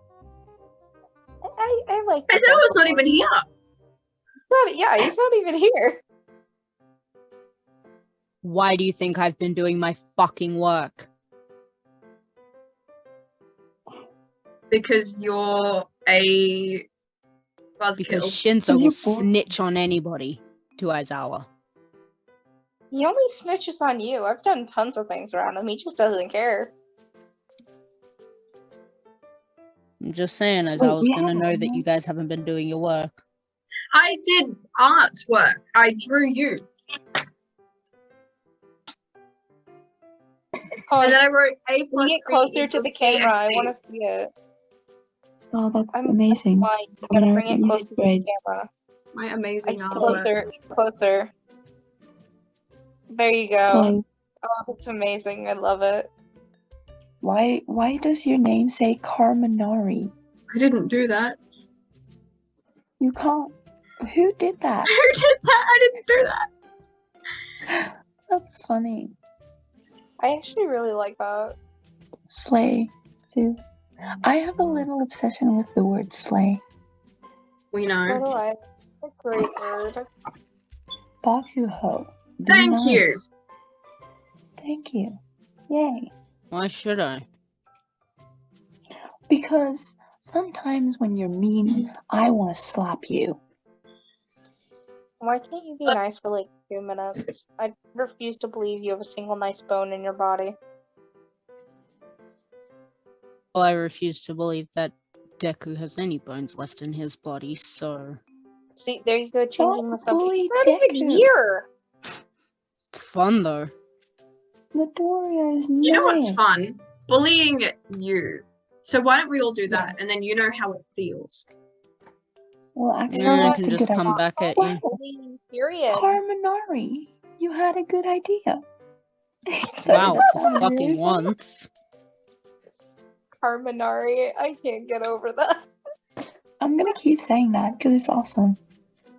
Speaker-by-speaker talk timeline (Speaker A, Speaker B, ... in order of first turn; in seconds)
Speaker A: 1.5-3.2, 4.5-6.0, 22.9-26.7, 40.9-41.2, 41.9-44.3, 45.9-48.7, 49.6-51.3, 53.1-53.9, 54.5-56.1, 70.2-71.5, 78.1-80.0, 95.2-100.5, 108.8-111.7, 123.2-126.2, 130.1-130.6, 133.4-135.5
Speaker B: 2.3-3.4, 14.7-16.9, 17.8-18.4, 33.9-36.7, 41.0-43.7, 49.1-50.3, 60.5-61.4, 64.8-66.5, 77.7-78.3, 82.5-83.2, 115.8-121.4
Speaker C: 8.4-11.1, 18.0-21.5, 30.0-33.2, 86.5-87.3, 103.5-108.2, 112.9-113.7, 123.1-124.8, 129.9-131.7
Speaker D: 18.7-19.3, 30.8-31.8, 45.5-48.3, 53.7-54.0, 57.2-60.1, 63.0-64.9, 67.7-69.1, 72.3-73.6, 74.2-76.6, 81.2-83.2, 84.6-85.2, 85.7-86.1, 89.3-93.4, 109.6-111.3, 114.7-116.4, 119.7-119.9, 122.7-125.0, 125.9-128.6, 129.5-131.3, 136.6-138.6